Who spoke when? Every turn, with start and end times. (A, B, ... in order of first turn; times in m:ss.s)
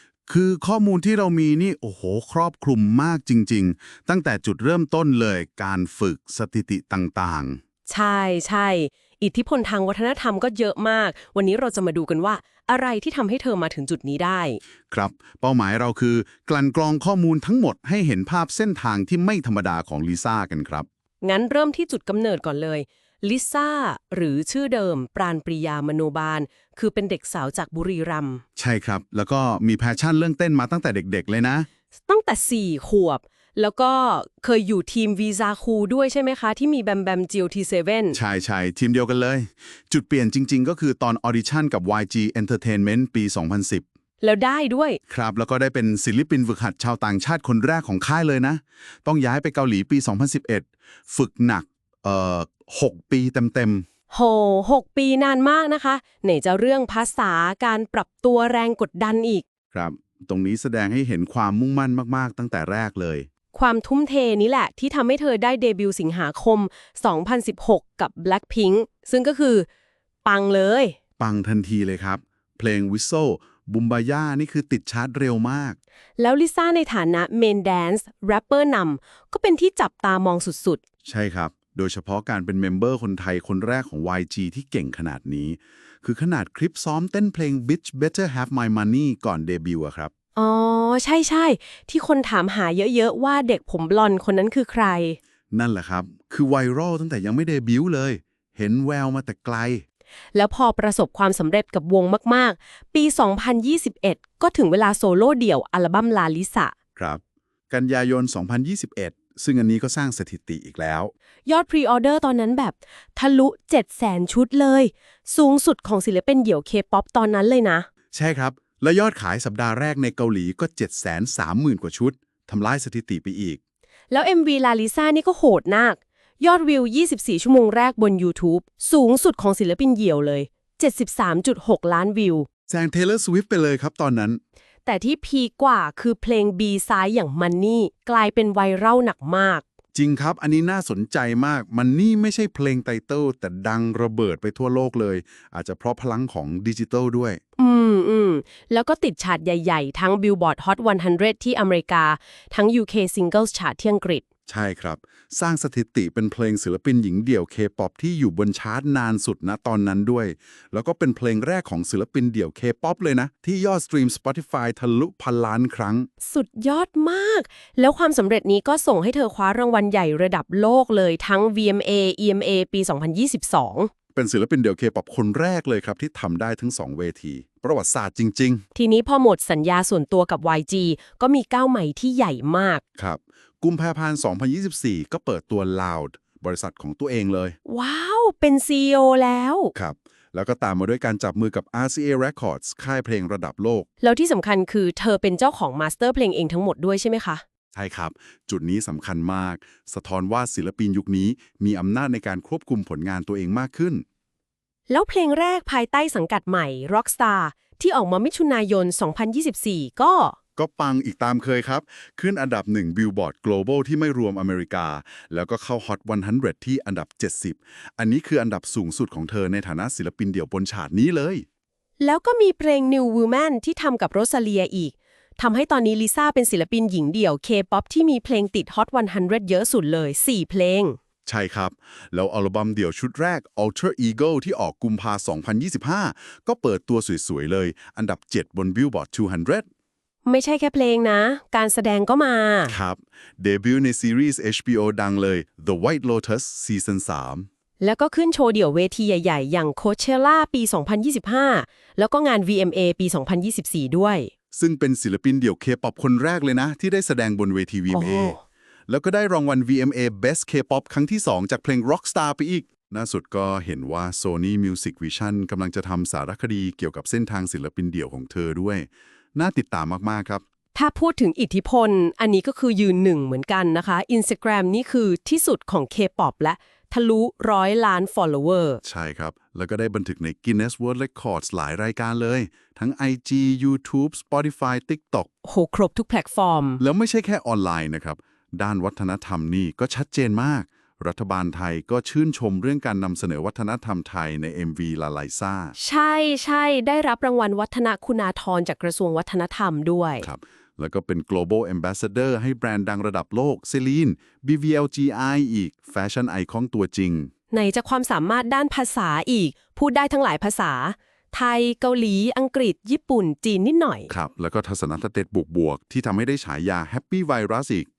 0:00.3-0:07.6 A
0:07.9-0:14.6 B
0:14.9-0:20.9 A
0:21.2-0:28.4 B
0:28.6-0:31.7 A
0:32.0-0:38.2 B
0:38.1-0:43.8 A
0:44.2-0:45.0 B
0:45.1-0:53.8 A
0:54.1-0:59.4 B
0:59.7-1:03.3 A
1:03.5-1:09.7 B
1:10.2-1:11.0 B
1:11.2-1:15.8 A
1:16.2-1:20.8 B
1:21.0-1:30.1 A
1:30.4-1:35.2 B
1:35.5-1:39.8 A
1:40.3-1:46.7 B
1:47.0-1:51.1 A
1:51.5-1:57.9 B
1:58.1-2:03.6 A
2:04.1-2:12.5 B
2:12.7-2:14.4 A
2:14.8-2:19.6 B
2:19.9-2:27.4 A
2:27.6-2:34.2 B
2:34.5-2:46.1 A
2:46.2-2:53.9 B
2:54.2-2:58.6 A
2:58.8-3:02.8 B
3:03.0-3:07.6 A
3:07.7-3:09.7 B
3:09.7-3:13.9 A
3:14.0-3:17.4 B
3:17.7-3:24.0 A
3:24.9-3:30.4 B
3:30.6-3:41.4 A
3:42.0-3:51.0 B
3:51.3-3:59.7 A
4:00.2-4:02.8 B
4:02.7-4:07.5 A
4:07.8-4:14.3 B
4:14.5-4:18.4 A
4:17.9-4:18.4 B
4:18.9-4:30.4 A
4:30.8-4:38.8 B
4:38.8-4:45.3 A
4:45.4-4:46.8 B
4:46.8-4:55.8 A
4:55.8-5:00.3 B
5:00.2-5:07.3 A
5:07.5-5:14.1 B
5:14.1-5:17.9 A